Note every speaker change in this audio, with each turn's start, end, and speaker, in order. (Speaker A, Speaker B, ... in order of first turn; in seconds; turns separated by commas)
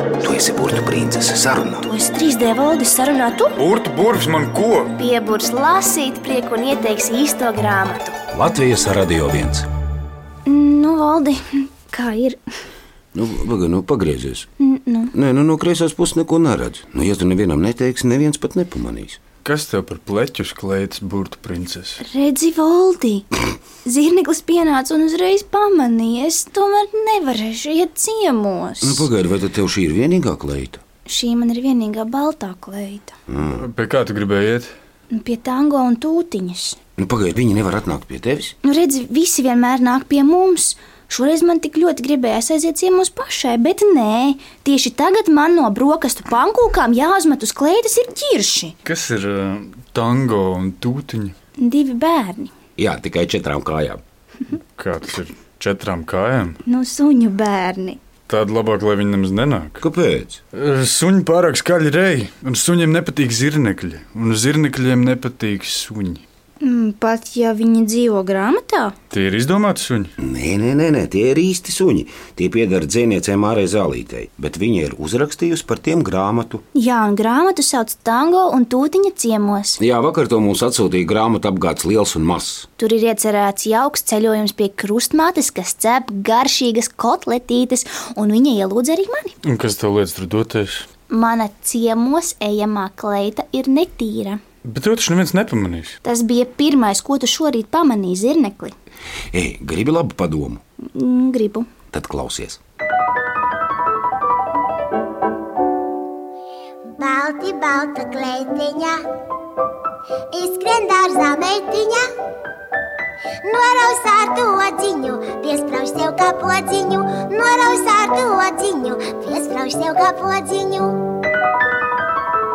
Speaker A: 0.2-1.9, Speaker B: 1.8-3.6, Speaker C: 3.6-4.9, Speaker B: 5.0-8.2, Speaker A: 8.3-9.7, Speaker B: 10.4-12.4, Speaker A: 13.1-14.5, Speaker B: 14.6-15.1, Speaker A: 15.1-19.2, Speaker C: 19.4-22.0, Speaker B: 22.0-23.3, Speaker B: 23.8-29.1, Speaker A: 28.8-30.8, Speaker B: 31.1-33.1, Speaker A: 33.3-33.6, Speaker C: 33.6-34.7, Speaker B: 35.1-36.8, Speaker A: 37.0-38.5, Speaker B: 38.6-48.7, Speaker C: 48.9-51.3, Speaker B: 51.6-52.5, Speaker A: 52.8-54.0, Speaker C: 54.8-56.6, Speaker B: 56.6-58.0, Speaker C: 58.3-59.8, Speaker A: 59.8-60.4, Speaker C: 60.5-66.2, Speaker B: 66.6-68.9, Speaker C: 69.1-70.1, Speaker A: 70.2-76.6, Speaker B: 76.7-79.8, Speaker A: 79.8-82.7, Speaker B: 82.8-89.3, Speaker C: 89.4-90.8, Speaker B: 91.1-94.4, Speaker C: 94.6-96.0, Speaker B: 96.0-98.7, Speaker A: 99.3-100.6, Speaker B: 100.9-101.7, Speaker A: 101.9-102.6, Speaker D: 107.0-109.0, Speaker D: 110.3-112.0, Speaker D: 113.4-121.0